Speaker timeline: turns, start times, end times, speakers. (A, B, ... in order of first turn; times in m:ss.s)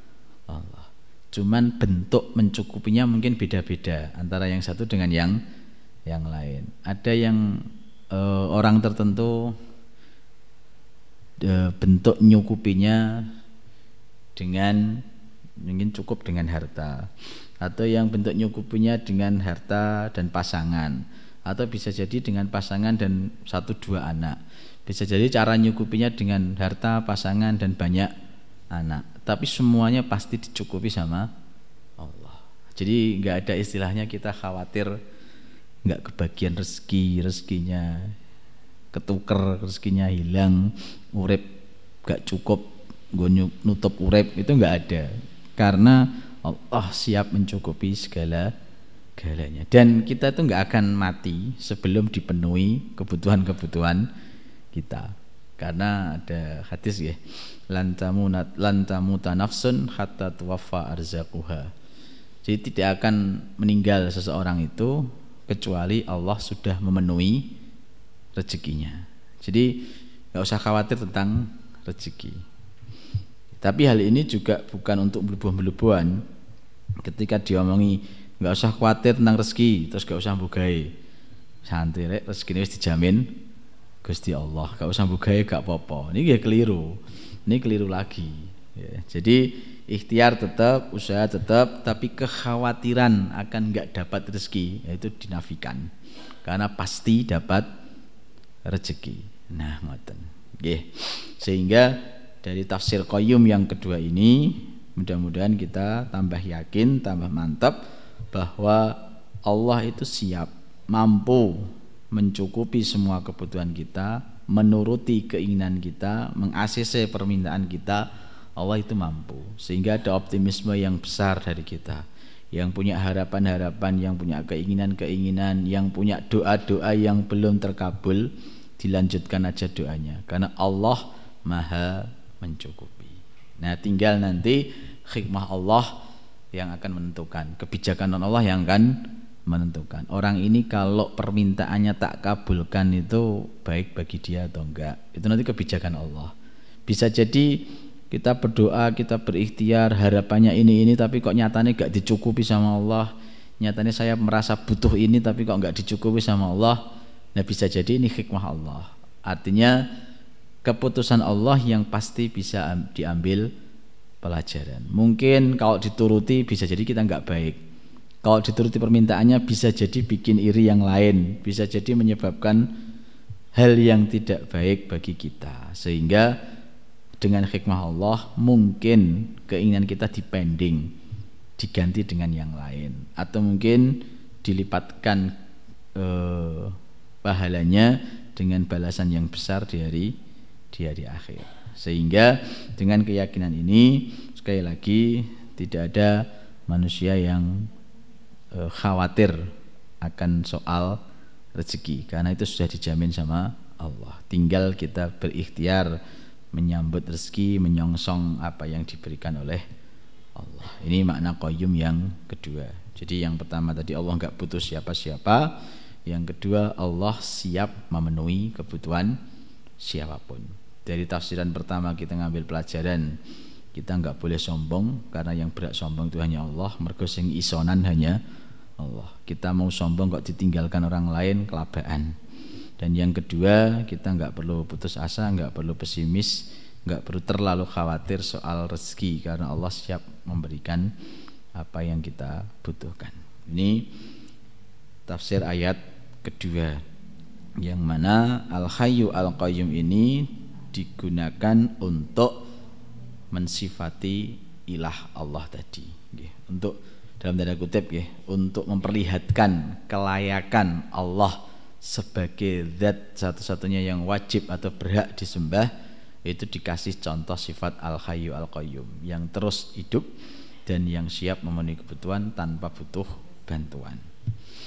0:00.5-0:05.4 A
0:06.1-0:09.5 A
0:11.4-0:13.2 A
0:14.4-0:15.0 A
0:15.6-0:28.1 A
0:28.7-0:31.3 A
0:32.0-0:35.0 A
0:35.9-0:38.1 A
0:38.9-0:41.4 A
0:42.0-0:48.5 A
0:49.2-0:54.1 A
0:54.7-0:57.2 A
0:57.7-1:01.7 A
1:02.4-1:07.5 A
1:08.4-1:09.8 A
1:10.3-1:12.4 A
1:13.6-1:16.2 A
1:17.0-1:20.9 A
1:21.7-1:23.4 A
1:24.0-1:35.9 A
1:36.4-1:37.7 A
1:38.7-1:47.8 A
1:48.3-1:58.1 A
1:58.6-2:02.0 A
2:02.5-2:15.9 A
2:16.5-2:26.3 A
2:26.9-2:33.1 A
2:33.6-2:36.8 A
2:37.4-2:39.9 A
2:40.6-2:43.5 A
2:44.2-2:47.6 A
2:48.2-2:52.7 A
2:53.6-2:56.4 A
2:57.2-3:00.9 A
3:01.6-3:05.3 A
3:06.0-3:10.1 A
3:10.7-3:17.7 A
3:18.5-3:19.4 A
3:20.0-3:21.0 A
3:21.6-3:26.0 A
3:26.5-3:29.6 A
3:30.4-3:35.6 A
3:36.1-3:39.2 A
3:39.8-3:43.2 A
3:43.7-3:48.2 A
3:48.8-3:52.2 A
3:52.8-4:00.9 A
4:01.6-4:03.9 A
4:05.1-4:06.8 A
4:07.6-4:12.4 A
4:13.3-4:25.7 A
4:26.3-4:30.1 A
4:30.7-4:34.0 A